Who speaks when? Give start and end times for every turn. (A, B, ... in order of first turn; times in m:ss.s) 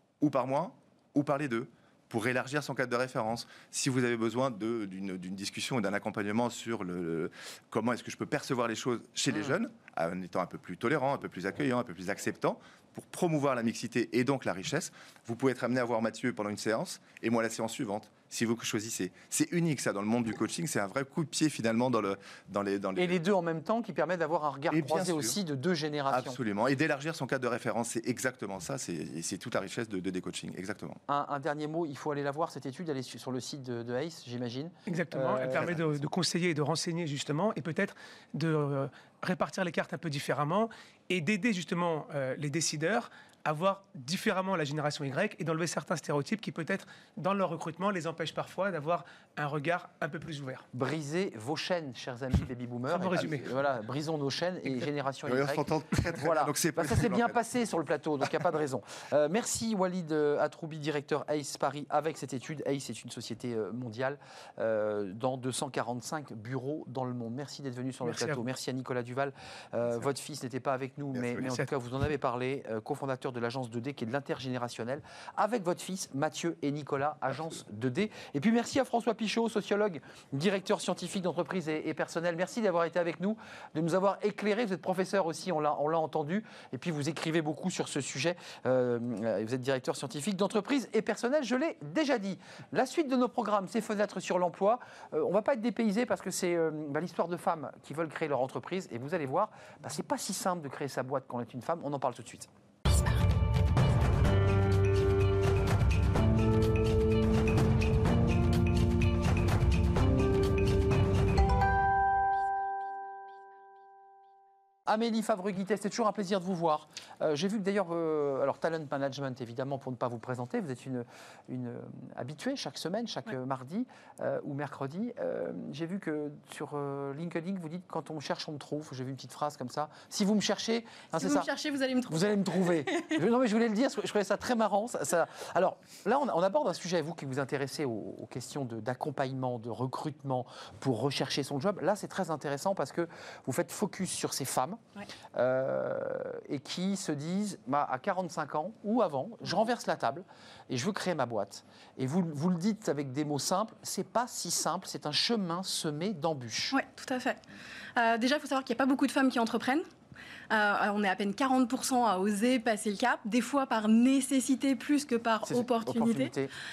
0:00.2-0:23.2 A
0:23.0-0:26.4 B
0:24.7-0:25.4 A
0:26.1-0:31.0 A
0:31.1-0:36.0 B
0:34.9-0:50.6 C
0:35.4-0:35.8 A
0:50.7-1:42.5 B
0:52.9-0:53.4 C
0:53.1-0:53.4 A
0:55.2-0:57.4 A
1:08.0-1:08.4 C
1:11.1-1:11.5 A
1:54.8-2:11.5 B
2:11.2-2:13.2 D
2:12.1-2:24.8 B
2:25.3-2:36.8 B
2:36.7-2:37.4 D
2:38.0-2:39.8 D
2:40.5-2:46.3 D
2:45.4-2:46.5 B